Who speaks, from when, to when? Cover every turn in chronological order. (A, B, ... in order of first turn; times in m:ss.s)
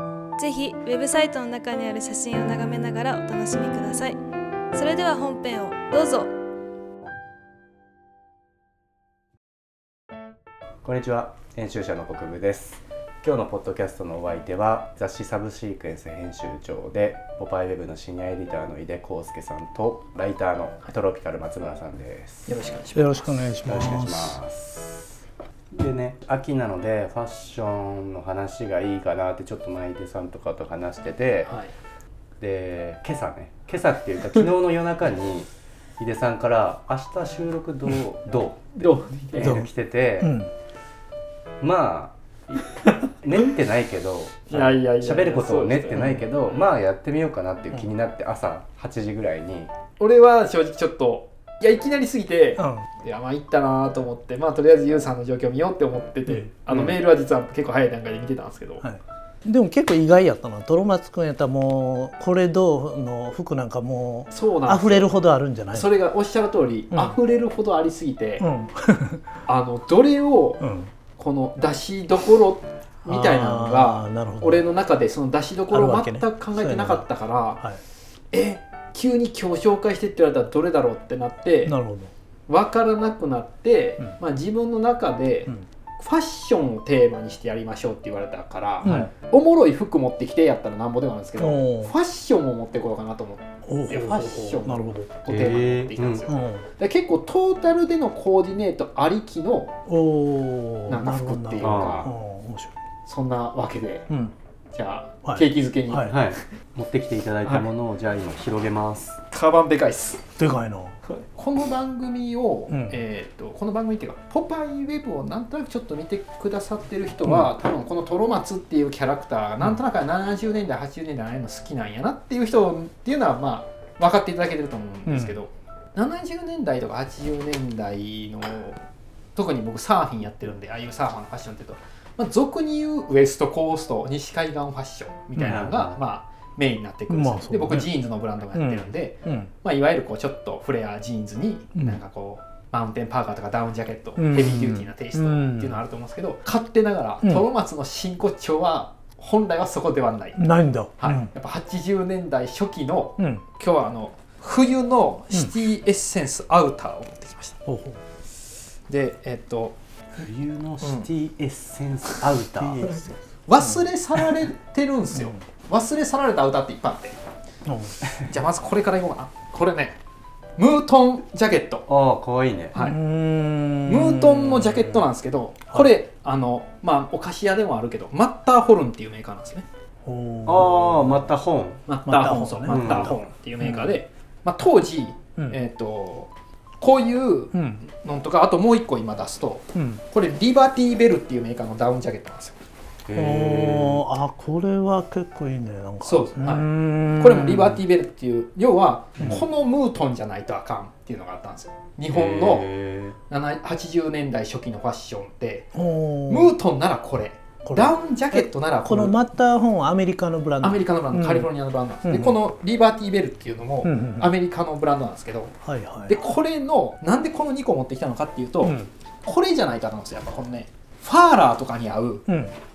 0:00.4-0:04.2 A
0:04.7-0:06.3 A
0:10.8-0:22.5 B
0:22.5-0:23.4 C
0:23.0-0:24.4 D
0:23.6-0:25.1 B
0:25.7-0:31.5 B
0:31.4-0:31.7 C
0:32.4-0:38.8 B
0:38.8-0:39.6 C
0:39.3-0:40.3 B
0:39.4-0:39.7 D
0:40.2-0:40.5 D
0:41.6-0:42.7 B
0:43.2-0:49.7 B
0:44.5-0:46.2 C
0:50.0-0:58.8 C
0:52.6-0:52.9 D
0:58.8-1:05.9 D
1:04.3-1:05.1 C
1:05.7-1:08.4 C
1:08.4-1:09.2 D
1:09.5-1:10.6 C
1:10.6-1:10.9 D
1:11.2-1:17.6 C
1:13.1-1:14.6 D
1:15.7-1:17.1 D
1:18.3-1:21.8 C
1:21.7-1:22.1 D
1:22.5-1:39.7 C
1:28.8-1:29.1 D
1:31.4-1:31.9 D
1:33.7-1:35.2 D
1:35.3-1:36.3 B
1:36.3-1:36.6 D
1:39.9-1:42.7 D
1:40.9-1:42.1 C
1:41.6-1:42.1 B
1:43.1-1:44.1 C
1:44.1-1:44.3 D
1:44.7-1:46.2 C
1:45.2-1:46.1 D
1:46.0-1:49.2 B
1:49.3-1:50.2 C
1:50.4-1:50.9 D
1:51.1-2:08.8 C
1:52.7-1:53.0 D
2:05.1-2:05.3 D
2:09.4-2:30.4 C
2:15.4-2:15.7 D
2:15.4-2:16.0 B
2:17.1-2:17.9 D
2:18.5-2:19.5 D
2:24.2-2:25.8 D
2:30.4-2:31.3 D
2:31.0-2:37.6 C
2:33.2-2:33.4 D
2:37.6-2:38.0 D
2:38.9-2:39.8 C
2:40.2-2:43.1 B
2:42.6-2:43.1 D
2:43.5-2:47.2 C
2:47.6-2:47.9 D
2:48.2-2:50.0 C
2:50.6-2:51.9 C
2:51.9-2:52.8 B
2:52.7-2:53.0 C
2:52.8-2:55.0 D
2:53.9-2:59.6 C
3:00.0-3:01.2 D
3:00.4-3:01.8 B
3:01.9-3:12.6 C
3:02.1-3:03.9 D
3:02.7-3:03.1 B
3:07.5-3:07.8 D
3:09.8-3:10.0 D
3:13.1-3:14.0 B
3:13.1-3:17.8 D
3:16.0-3:22.6 C
3:22.1-3:23.2 B
3:23.3-3:25.7 C
3:25.7-3:26.5 D
3:26.3-3:29.2 C
3:27.6-3:31.5 D
3:30.6-3:35.5 C
3:32.0-3:32.4 D
3:33.8-3:34.3 D
3:35.6-3:36.2 D
3:36.1-3:42.3 C
3:38.6-3:38.9 D
3:42.3-3:42.5 D